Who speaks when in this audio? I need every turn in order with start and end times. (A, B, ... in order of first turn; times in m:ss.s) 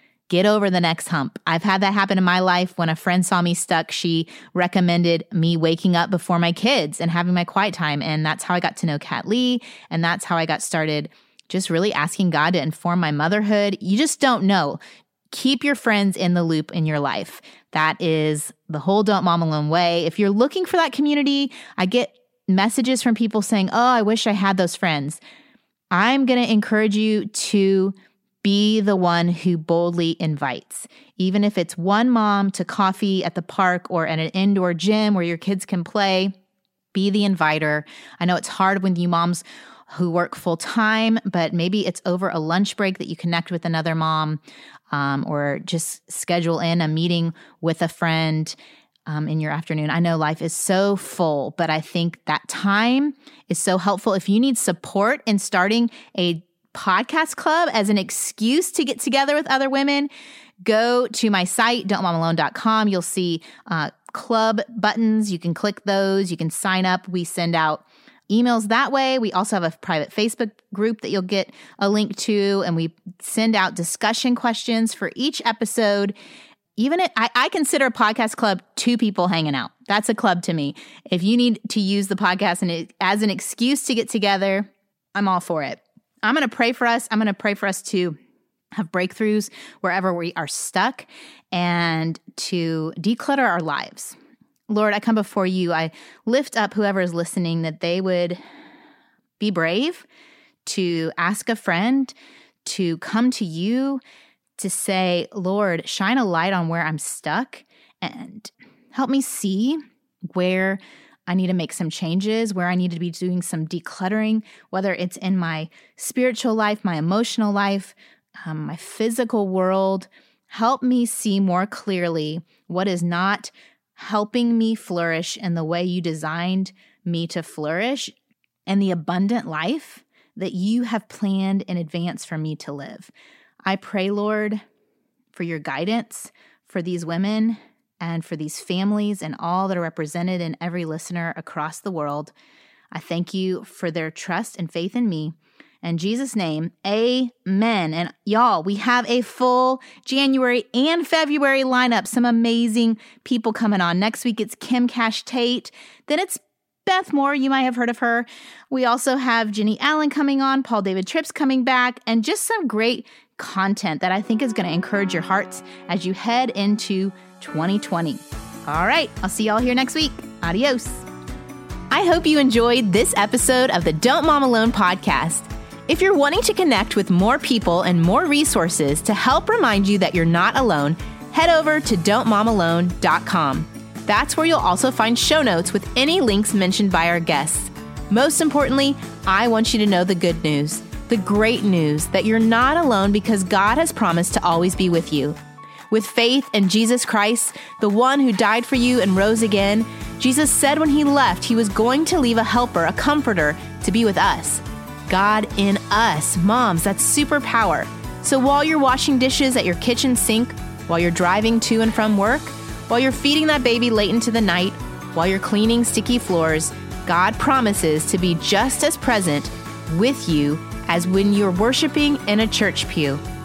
0:00.3-0:14.8 A
0:15.3-0:25.2 A
0:25.9-0:36.3 A
0:36.9-0:44.4 A
0:44.9-0:48.6 A
0:49.1-1:00.1 A
1:00.6-1:16.1 A
1:16.8-1:28.2 A
1:28.8-1:34.2 A
1:34.7-1:38.4 A
1:39.4-1:40.1 A
1:40.6-1:44.0 A
1:44.6-1:49.8 A
1:50.4-2:08.1 A
2:08.7-2:13.1 A
2:13.7-2:14.6 A
2:15.3-2:22.3 A
2:22.9-2:51.1 A
2:51.9-3:15.4 A
3:15.9-3:43.2 A